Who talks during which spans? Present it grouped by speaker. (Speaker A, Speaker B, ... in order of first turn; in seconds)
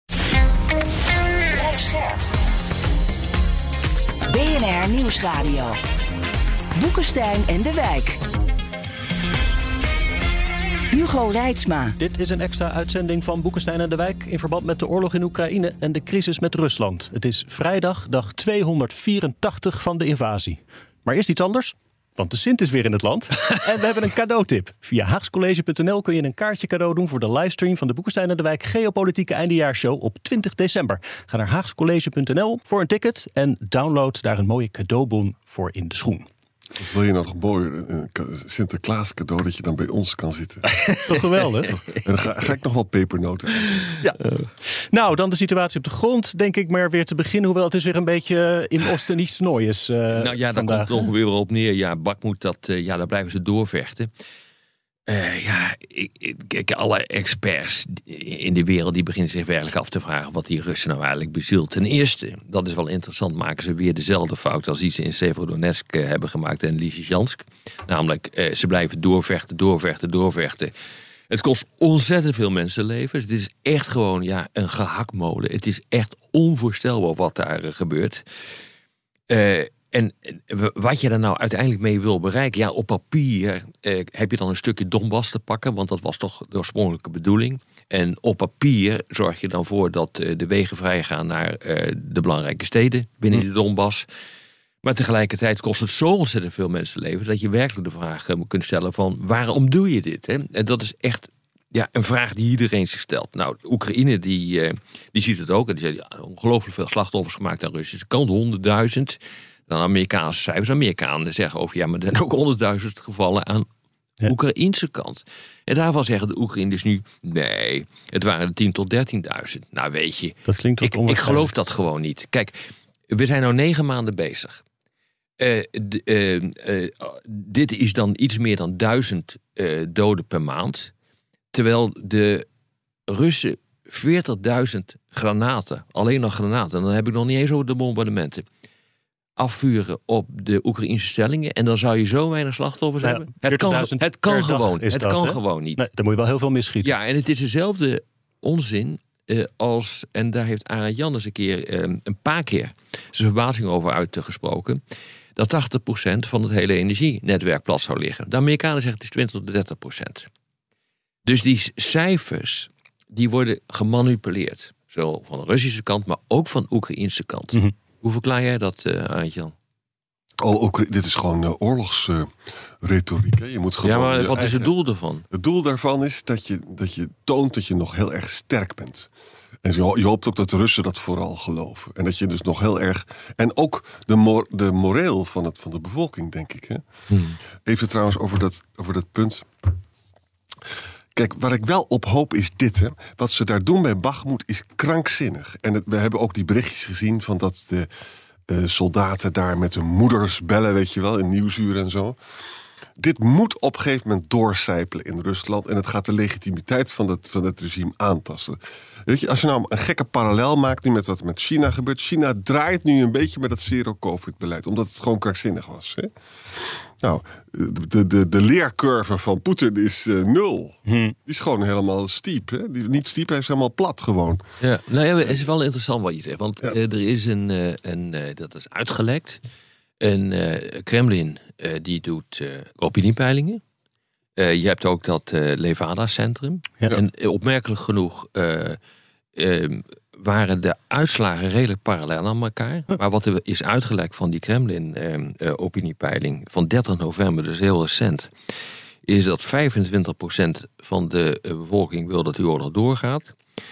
Speaker A: 1.5-2.2, 4.3-5.8, 6.7-8.2, 10.9-11.9
Speaker B: 12.0-36.2, 41.1-41.7, 44.0-51.0, 120.5-121.5, 143.0-146.9, 220.8-221.2
Speaker C: 36.8-40.6, 42.0-43.8, 170.4-172.3, 172.8-174.7, 175.3-179.1, 179.6-186.8, 187.6-189.5, 191.1-197.9, 198.5-202.2, 203.0-224.4
Speaker D: 40.8-41.1, 50.1-54.1, 55.1-70.7, 71.3-78.2, 79.3-94.0, 94.8-113.7, 114.2-122.5, 123.1-124.6, 125.4-130.9, 131.5-132.4, 133.1-138.4, 139.4-145.8, 146.8-154.8, 155.3-160.3, 161.2-169.5, 173.8-175.2, 187.1-187.4, 224.6-229.4, 230.0-233.6, 234.4-238.8, 239.3-248.3, 249.1-253.3